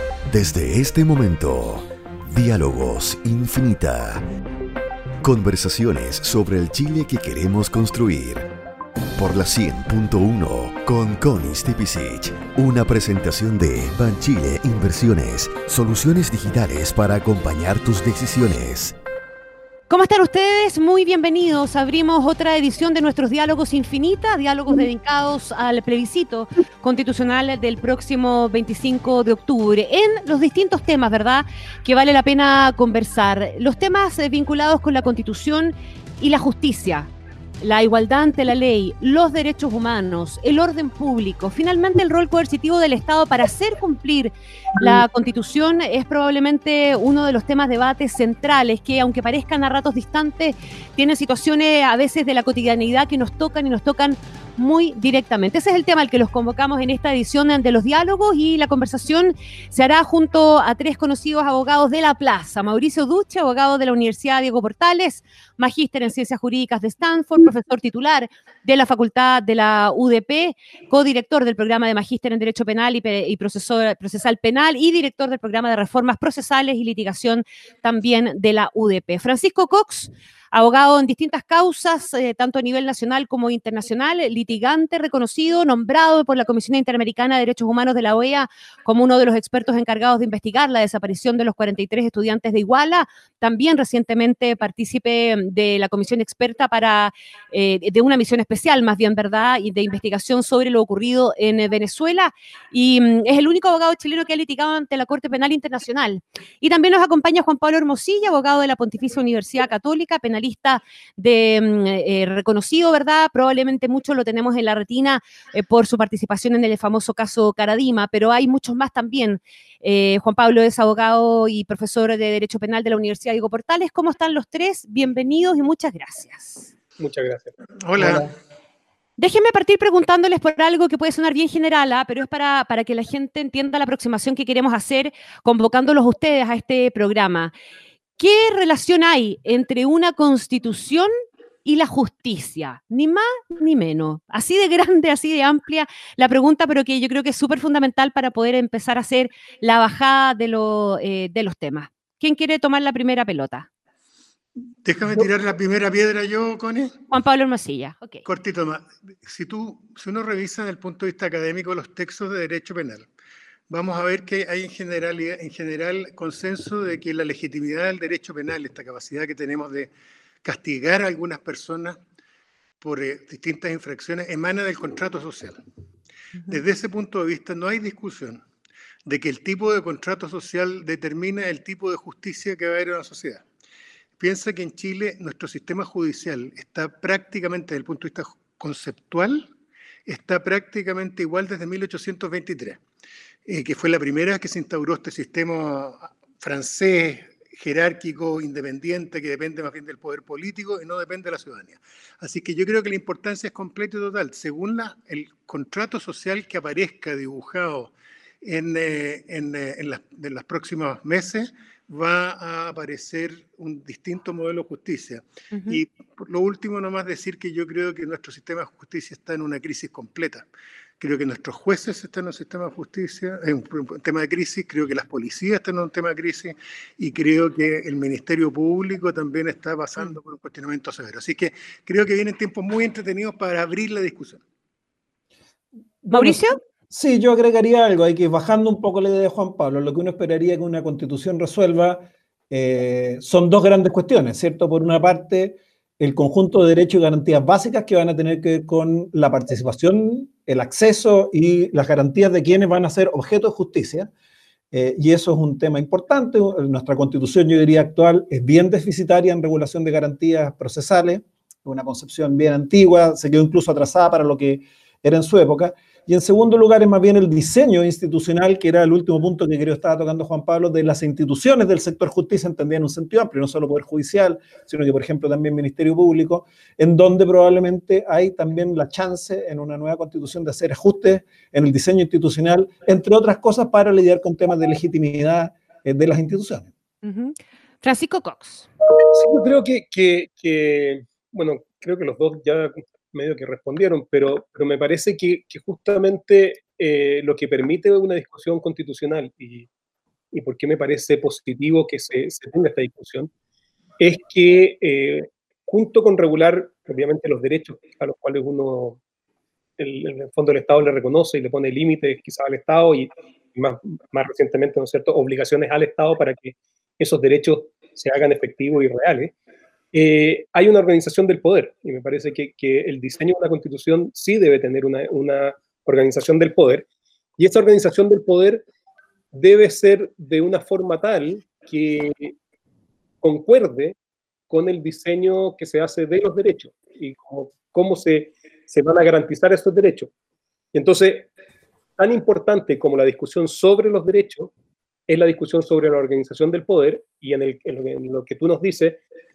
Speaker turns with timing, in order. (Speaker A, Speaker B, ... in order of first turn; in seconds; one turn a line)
Speaker A: 0.3-4.2
Speaker A: 5.2-8.5
Speaker A: 9.2-18.9
Speaker B: 19.9-37.1
Speaker B: 37.6-126.7
Speaker C: 127.0-127.5
Speaker D: 127.8-128.2
Speaker B: 128.0-128.2
Speaker B: 129.2-137.5
Speaker B: 138.2-141.1
Speaker B: 141.6-153.7
Speaker D: 154.8-156.9
Speaker B: 157.1-158.2
Speaker D: 158.2-163.1
Speaker D: 163.7-169.9
Speaker D: 170.4-172.0
Speaker D: 172.8-175.6
Speaker D: 176.5-178.4
Speaker D: 179.1-183.4
Speaker D: 184.2-189.5
Speaker D: 190.1-192.8
Speaker D: 193.4-220.4
Speaker B: 215.5-215.8
Speaker D: 221.0-234.4
Speaker E: 236.0-254.1
Speaker B: 236.1-236.6
Speaker E: 254.7-286.7
Speaker B: 287.0-288.7
Speaker C: 289.1-299.7
Speaker C: 300.3-303.3
Speaker C: 304.0-309.0
Speaker C: 309.8-319.3
Speaker C: 319.9-326.9
Speaker C: 327.4-328.6
Speaker C: 329.3-332.3
Speaker C: 333.2-333.9
Speaker C: 334.5-340.1
Speaker C: 340.7-341.3
Speaker C: 342.0-344.5
Speaker C: 345.1-349.0